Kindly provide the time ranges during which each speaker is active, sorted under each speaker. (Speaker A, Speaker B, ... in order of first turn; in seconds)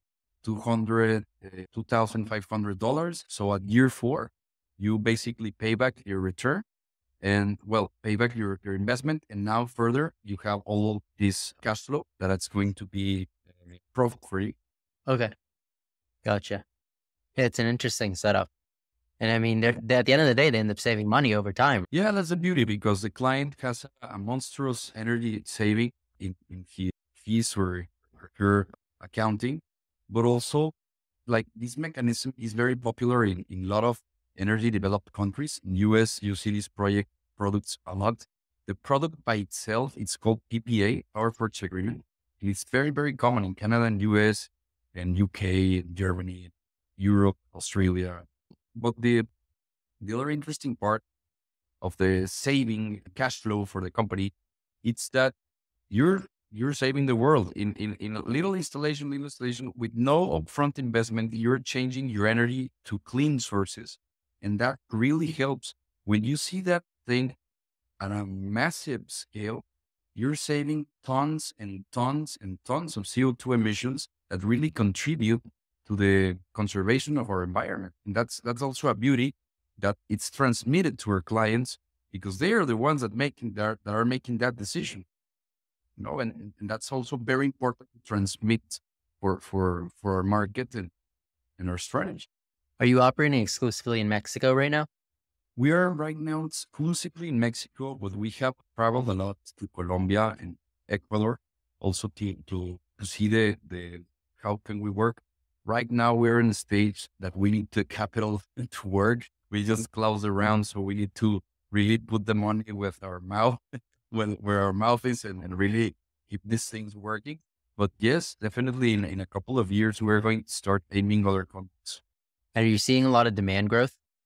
Speaker A: 0.4-6.7, 7.2-14.6, 21.9-30.8, 31.3-49.3, 50.0-51.0, 51.8-55.4, 55.9-67.4, 68.0-69.6, 70.2-85.1, 86.0-90.9, 91.6-92.3, 95.6-122.0
Speaker B: 15.1-15.3, 16.2-16.6, 17.4-18.5, 19.2-21.9, 92.8-94.9, 122.5-124.0